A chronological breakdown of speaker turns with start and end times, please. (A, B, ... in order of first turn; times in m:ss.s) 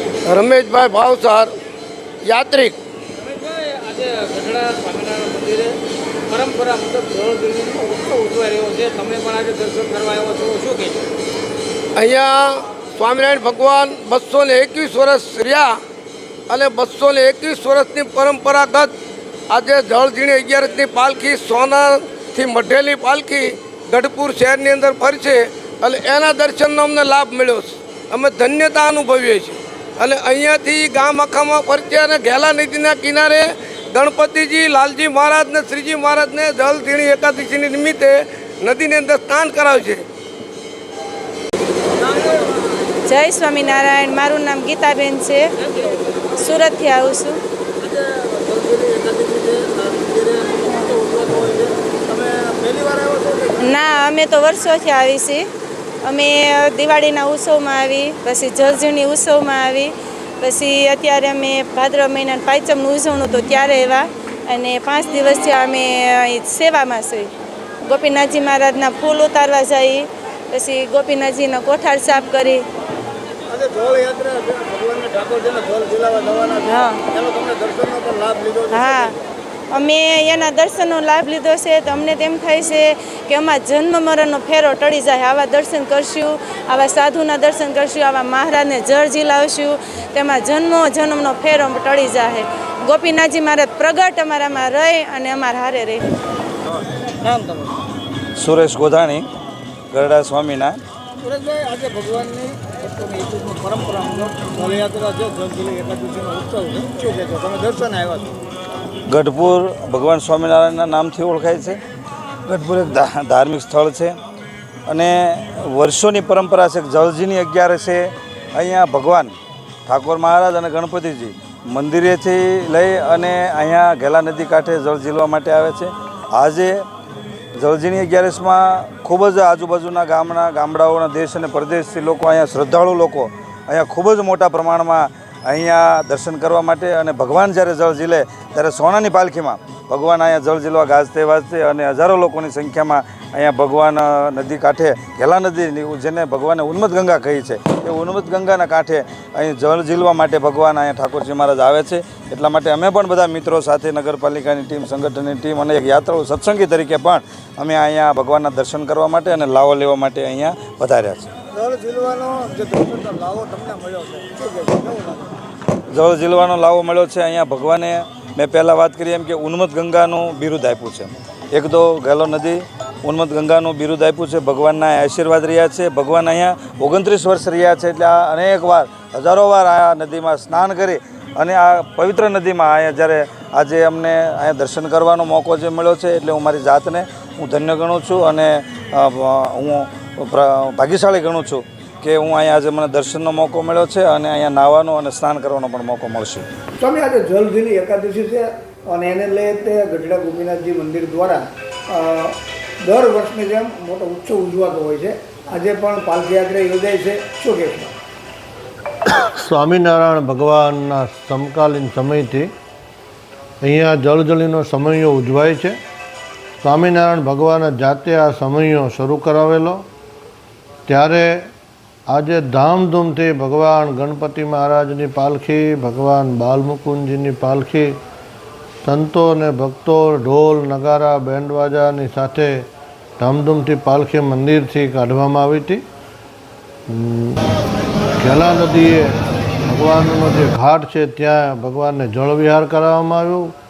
0:00.2-0:01.5 A
0:02.2-0:02.8 A
0:03.2-0:05.8 B
0:06.3-0:11.1 B
0:12.0-0:15.7 A
0:16.5-0:18.9 A
0:19.5-0:40.0 A
0:43.0-0:45.5 C
0:46.3-0:47.4 C
0:47.8-0:53.5 D
0:49.8-0:50.3 B
0:53.6-0:55.5 C
0:56.0-1:07.3 C
1:07.8-1:12.6 C
1:13.5-1:18.9 D
1:16.6-1:17.0 C
1:18.7-1:19.2 C
1:19.7-1:36.0 C
1:37.2-1:37.7 D
1:38.4-1:39.3 E
1:39.9-1:40.8 E
1:41.2-1:48.4 D
1:49.1-1:51.8 E
1:52.4-1:54.2 E
1:54.9-1:59.3 E
1:59.8-2:06.8 E
2:07.5-2:41.3 E
2:41.5-2:45.3 D
2:45.9-3:16.5 E
3:16.8-3:28.0 D
3:29.2-3:32.5 F
3:33.6-3:35.8 F
3:36.6-3:39.8 F
3:40.9-3:41.5 F
3:42.1-3:47.9 F
3:48.8-3:52.7 F
3:53.2-3:55.8 F
3:56.9-3:57.4 F
3:58.2-4:03.5 F